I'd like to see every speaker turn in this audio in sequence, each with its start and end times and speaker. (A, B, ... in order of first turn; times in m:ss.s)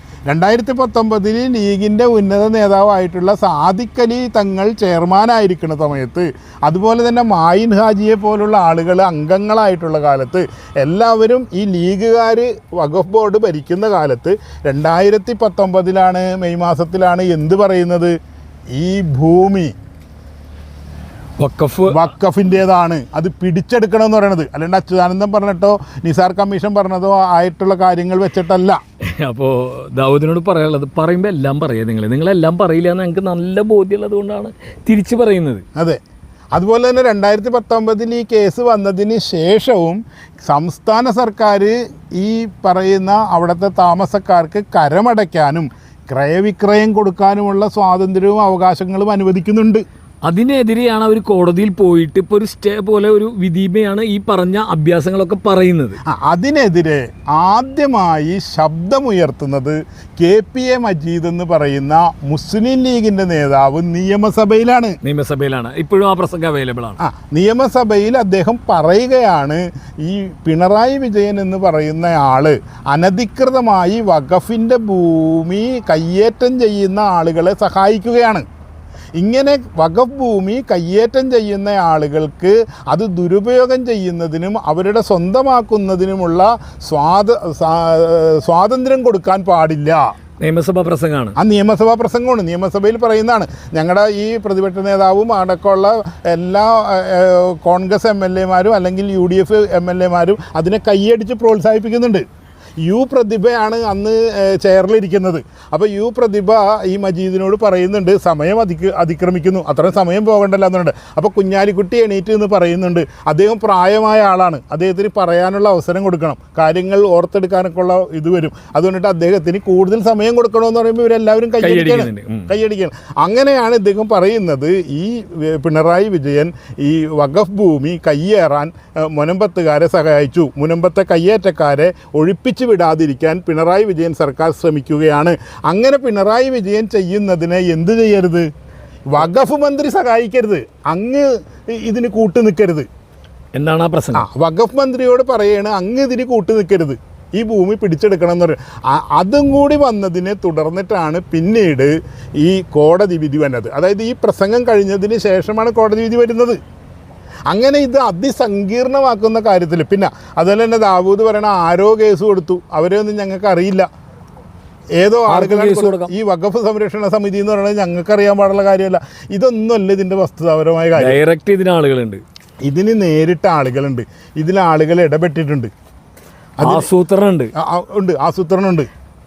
0:00.3-0:18.2 A
0:18.7-0:19.7 A
0:21.4-0:22.1 B
0:21.9-0:28.8 A
0:29.0-0:35.6 B
0:36.5-0:49.8 A
0:50.2-0:56.0 B
0:56.1-1:05.0 A
1:05.0-1:07.0 B
1:07.0-1:18.5 A
1:19.2-1:30.1 A
1:30.4-1:31.4 B
1:31.4-1:42.2 A
1:42.8-2:18.5 A
2:01.6-2:02.5 B
2:19.1-2:22.9 A
2:23.6-2:24.3 B
2:24.2-2:36.6 A
2:37.5-2:43.9 A
2:45.0-2:51.2 A
2:45.3-2:46.1 B
2:51.0-2:52.2 B
2:52.7-2:55.7 A
2:56.6-2:56.9 A
2:56.6-2:57.5 B
2:57.6-2:58.9 A